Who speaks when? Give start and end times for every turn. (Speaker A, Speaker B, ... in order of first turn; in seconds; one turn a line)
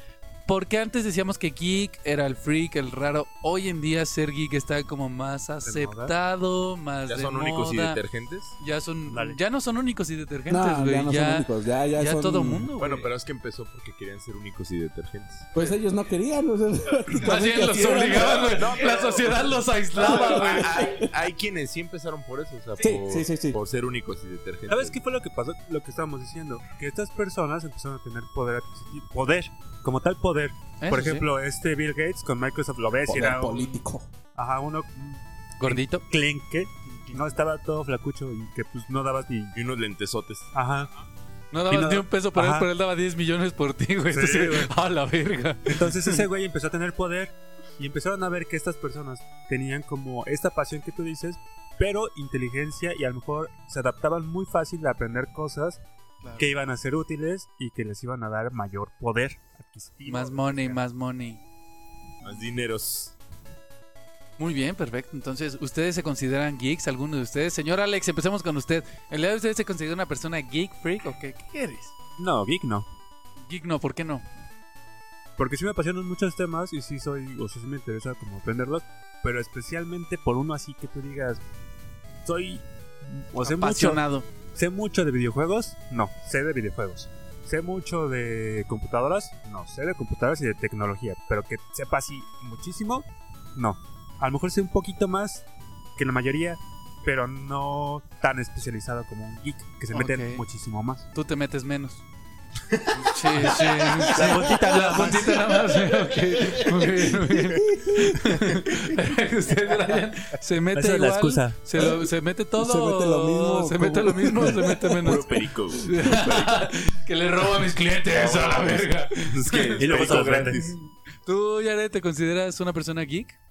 Speaker A: 0.5-8.0
Speaker B: 5.6-6.1
Speaker C: 7.1-8.6
Speaker A: 8.6-13.1
Speaker B: 9.1-9.4
Speaker D: 10.5-12.7
Speaker C: 12.8-15.5
Speaker D: 15.5-18.6
Speaker A: 17.1-20.8
Speaker C: 18.4-25.0
Speaker D: 20.0-21.1
Speaker D: 22.8-23.6
Speaker B: 24.7-33.6
Speaker A: 30.8-31.3
Speaker D: 33.1-34.1
Speaker B: 34.4-39.5
Speaker A: 35.6-36.0
Speaker C: 39.5-40.5
Speaker B: 40.5-40.9
Speaker A: 41.5-46.2
Speaker B: 41.7-42.7
Speaker B: 44.1-44.7
Speaker B: 45.6-55.8
Speaker A: 56.2-56.5
Speaker B: 56.4-60.8
Speaker A: 60.1-61.4
Speaker C: 62.2-63.1
Speaker A: 64.4-71.9
Speaker B: 72.2-72.9
Speaker A: 73.4-74.2
Speaker B: 75.4-81.4
Speaker B: 82.2-101.1
Speaker A: 83.4-84.3
Speaker A: 99.9-100.4
Speaker A: 101.1-102.0
Speaker C: 102.7-103.5
Speaker A: 102.9-120.2
Speaker B: 103.4-105.4
Speaker D: 107.5-108.2
Speaker B: 110.8-111.6
Speaker D: 112.6-115.2
Speaker C: 115.0-116.7
Speaker C: 118.1-120.8
Speaker B: 119.8-120.7
Speaker A: 121.2-123.4